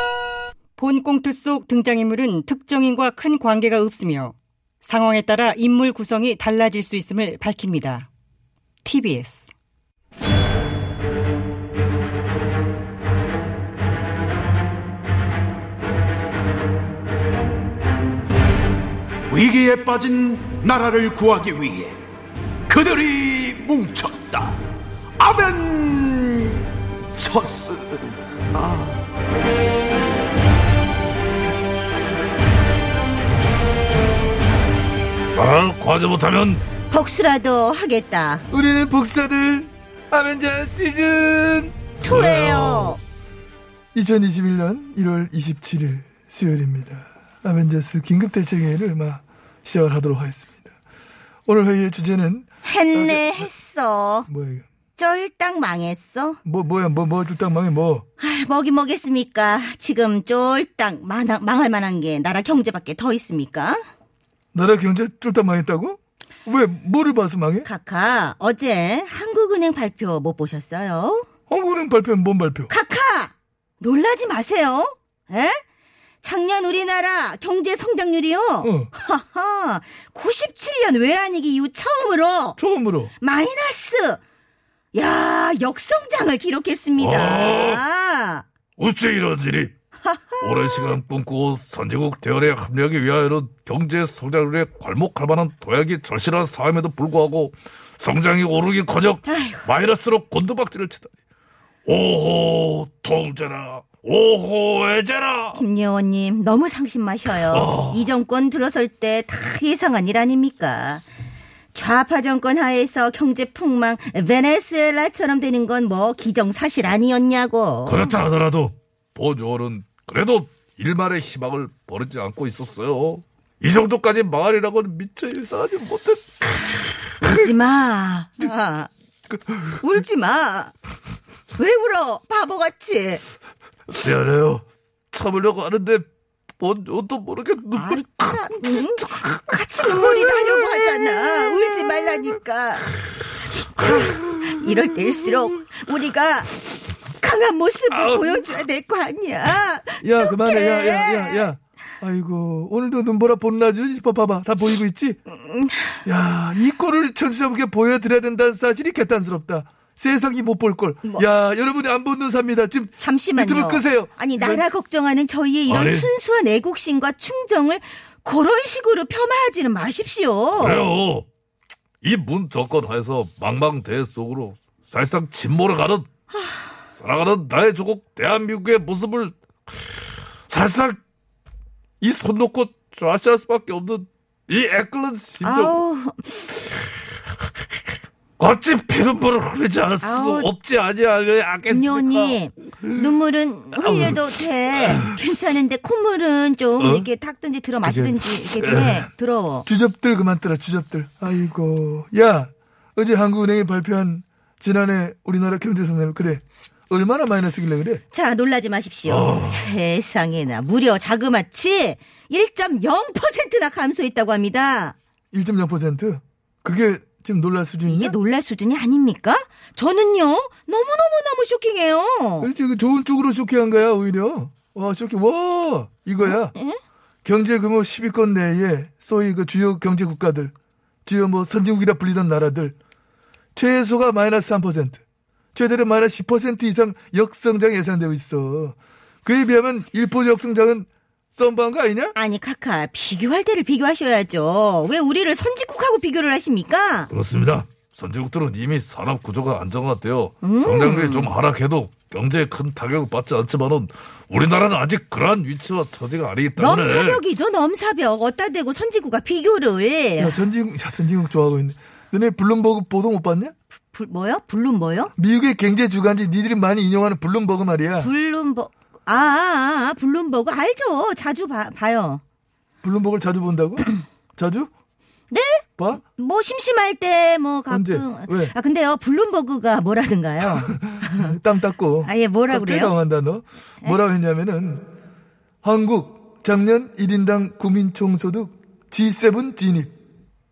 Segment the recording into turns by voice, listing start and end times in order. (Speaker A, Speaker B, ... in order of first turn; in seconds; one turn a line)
Speaker A: 0.8-8.1
Speaker A: 8.8-9.5
Speaker B: 19.3-21.9
Speaker B: 22.7-24.6
Speaker B: 25.2-28.9
Speaker C: 35.3-36.6
Speaker D: 36.9-38.5
Speaker E: 38.5-42.2
Speaker D: 42.0-43.0
Speaker C: 42.1-43.0
Speaker E: 43.9-50.7
Speaker E: 51.5-53.5
Speaker D: 52.6-54.3
Speaker E: 54.3-54.6
Speaker D: 55.0-56.4
Speaker E: 56.5-58.0
Speaker D: 58.2-63.8
Speaker E: 64.5-67.7
Speaker D: 67.6-71.3
Speaker E: 71.5-72.7
Speaker D: 72.7-75.6
Speaker D: 76.2-82.6
Speaker E: 78.6-78.9
Speaker E: 82.6-83.1
Speaker D: 83.2-84.2
Speaker D: 84.9-88.5
Speaker C: 87.0-87.8
Speaker C: 88.8-89.7
Speaker D: 90.0-90.9
Speaker C: 90.4-101.1
Speaker D: 99.2-99.7
Speaker C: 101.8-105.6
Speaker D: 105.5-111.0
Speaker C: 107.4-108.1
Speaker D: 111.7-118.2
Speaker C: 117.9-127.4
Speaker D: 127.2-128.9
Speaker D: 129.8-130.7
Speaker D: 131.6-133.2
Speaker C: 133.9-136.1
Speaker C: 136.6-142.3
Speaker D: 137.8-142.9
Speaker D: 143.6-151.5
Speaker C: 143.8-144.9
Speaker C: 147.9-148.4
Speaker E: 150.0-155.2
Speaker D: 155.3-156.0
Speaker E: 156.1-164.7
Speaker D: 163.0-170.9
Speaker C: 165.7-166.1
Speaker C: 170.6-171.3
Speaker C: 172.0-176.1
Speaker D: 176.3-176.7
Speaker C: 176.9-179.4
Speaker C: 180.5-181.0
Speaker C: 182.0-185.8
Speaker D: 185.4-186.3
Speaker C: 188.4-193.1
Speaker D: 190.0-190.5
Speaker D: 191.7-199.7
Speaker C: 193.7-194.2
Speaker C: 194.8-195.2
Speaker C: 197.9-199.1
Speaker E: 199.7-208.0
Speaker D: 208.1-215.0
Speaker C: 209.1-209.7
Speaker E: 215.3-218.2
Speaker D: 217.8-222.5
Speaker E: 222.4-226.6
Speaker D: 226.2-226.8
Speaker E: 227.2-230.5
Speaker E: 231.1-232.8
Speaker E: 233.6-235.0
Speaker E: 235.6-242.2
Speaker D: 242.2-247.1
Speaker C: 247.1-257.2
Speaker D: 250.4-251.3
Speaker D: 256.6-260.4
Speaker E: 260.2-263.5
Speaker D: 263.9-265.1
Speaker E: 265.2-268.1
Speaker D: 268.0-272.2
Speaker E: 272.8-274.7
Speaker D: 275.3-281.4
Speaker E: 277.7-278.5
Speaker E: 280.4-284.9
Speaker D: 282.0-282.9
Speaker E: 285.6-289.9